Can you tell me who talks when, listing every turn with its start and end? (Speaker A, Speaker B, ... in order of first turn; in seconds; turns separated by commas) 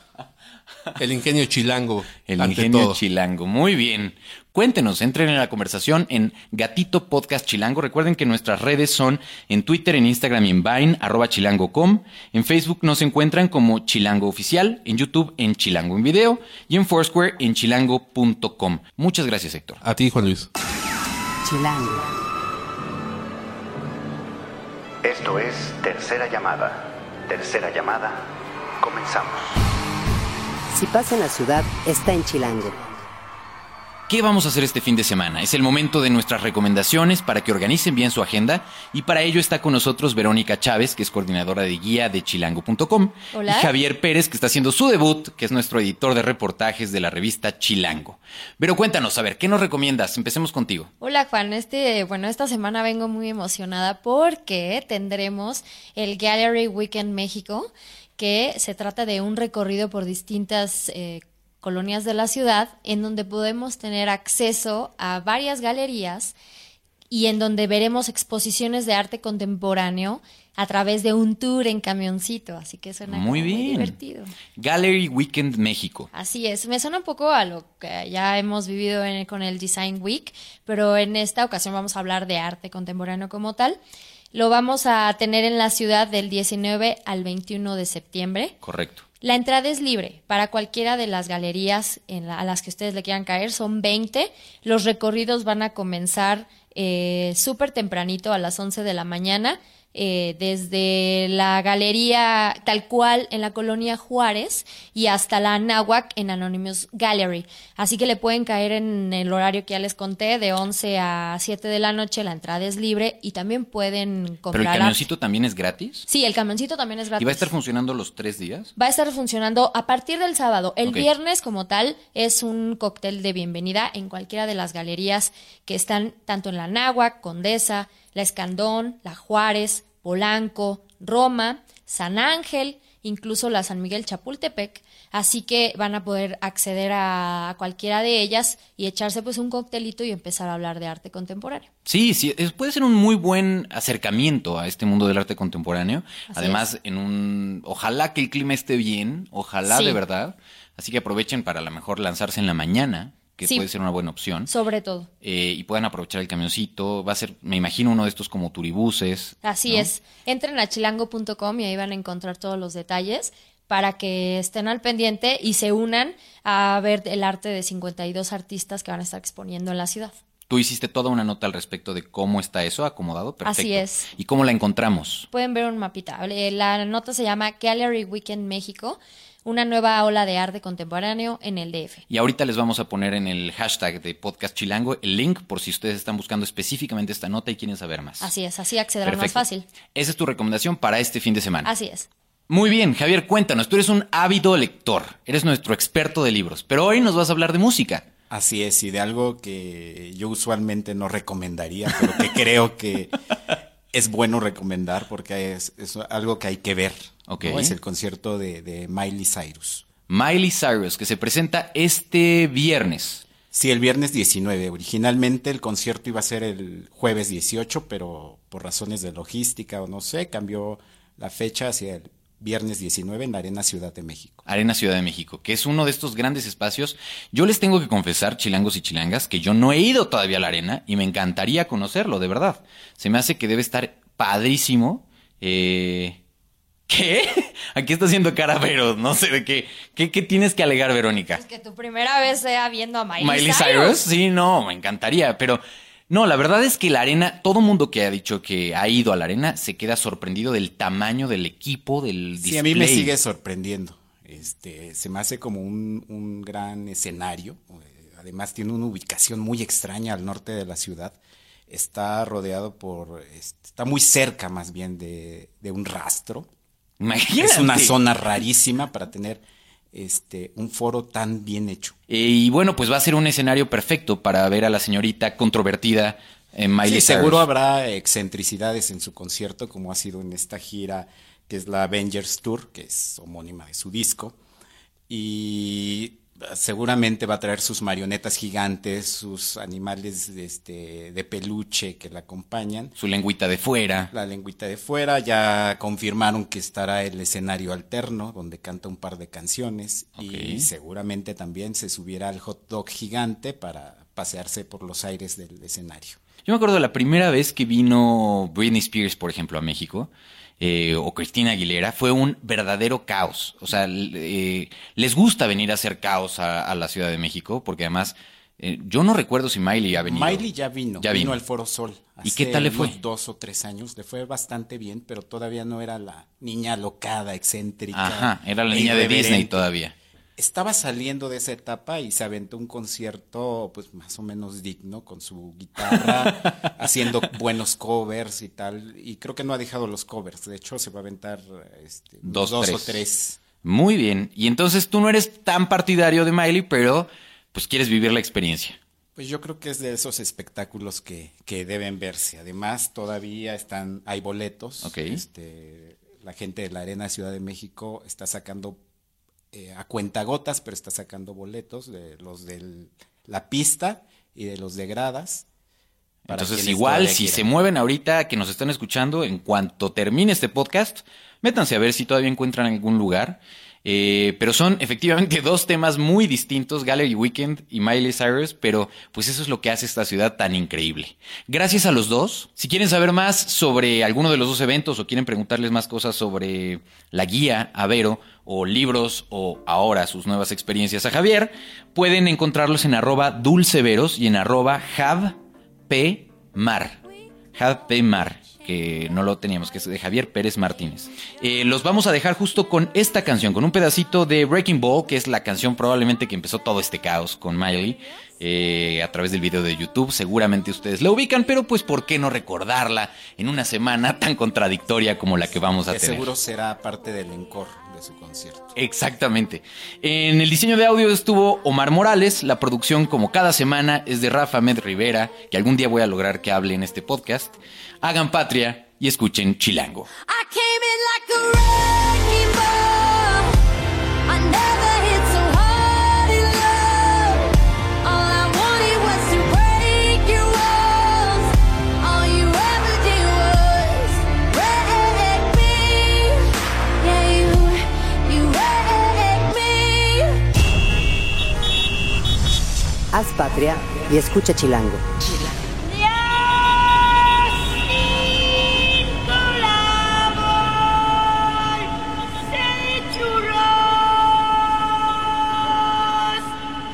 Speaker A: 1.0-3.0, Speaker B: 2.3-19.8, Speaker A: 19.8-20.5, Speaker C: 21.4-22.1, Speaker D: 25.1-28.2, Speaker D: 28.8-29.4, Speaker C: 30.7-32.8, Speaker B: 34.1-50.9, Speaker E: 43.3-43.7, Speaker E: 51.0-66.3, Speaker E: 67.1-74.3, Speaker B: 73.1-73.9, Speaker B: 74.5-76.1, Speaker E: 76.1-83.8, Speaker E: 84.3-88.5, Speaker B: 88.6-89.0, Speaker E: 89.2-115.0, Speaker B: 114.5-116.0, Speaker E: 116.1-117.5, Speaker B: 117.2-118.7, Speaker E: 118.8-141.7, Speaker B: 141.8-154.5, Speaker E: 146.3-146.7, Speaker E: 149.7-150.0, Speaker E: 154.5-155.1, Speaker B: 155.2-159.9, Speaker E: 159.4-170.2, Speaker B: 170.5-175.3, Speaker E: 173.4-174.1, Speaker E: 175.3-182.0, Speaker B: 182.1-188.3, Speaker E: 188.2-189.7, Speaker B: 189.0-189.4, Speaker B: 189.9-191.7, Speaker E: 191.6-192.1, Speaker B: 192.5-198.0, Speaker F: 198.3-203.1, Speaker F: 203.9-209.9, Speaker B: 207.3-207.8, Speaker B: 210.1-213.2, Speaker F: 213.5-224.4, Speaker B: 224.4-236.2, Speaker B: 236.9-241.4, Speaker E: 241.3-244.0, Speaker B: 243.2-253.1, Speaker F: 252.4-261.2, Speaker F: 261.7-266.5, Speaker B: 267.0-268.0, Speaker F: 267.4-271.9, Speaker B: 272.1-277.4, Speaker F: 276.8-284.4, Speaker F: 285.1-292.9, Speaker B: 293.0-294.1, Speaker F: 294.1-306.2, Speaker B: 300.2-300.7, Speaker B: 306.4-320.4, Speaker F: 320.0-329.7, Speaker B: 321.0-321.4, Speaker B: 322.2-322.9, Speaker B: 327.9-329.9, Speaker F: 330.4-343.4, Speaker B: 342.2-343.0, Speaker B: 343.6-348.8, Speaker F: 349.1-358.8, Speaker B: 354.8-355.2, Speaker F: 359.5-365.4, Speaker F: 366.3-367.4, Speaker B: 366.3-397.0, Speaker B: 397.5-416.3, Speaker F: 415.9-418.7, Speaker B: 418.7-430.1, Speaker G: 430.2-433.6, Speaker G: 434.3-450.4, Speaker C: 453.1-455.0, Speaker G: 455.8-460.6, Speaker G: 461.4-461.9, Speaker G: 462.4-464.3, Speaker G: 466.1-466.4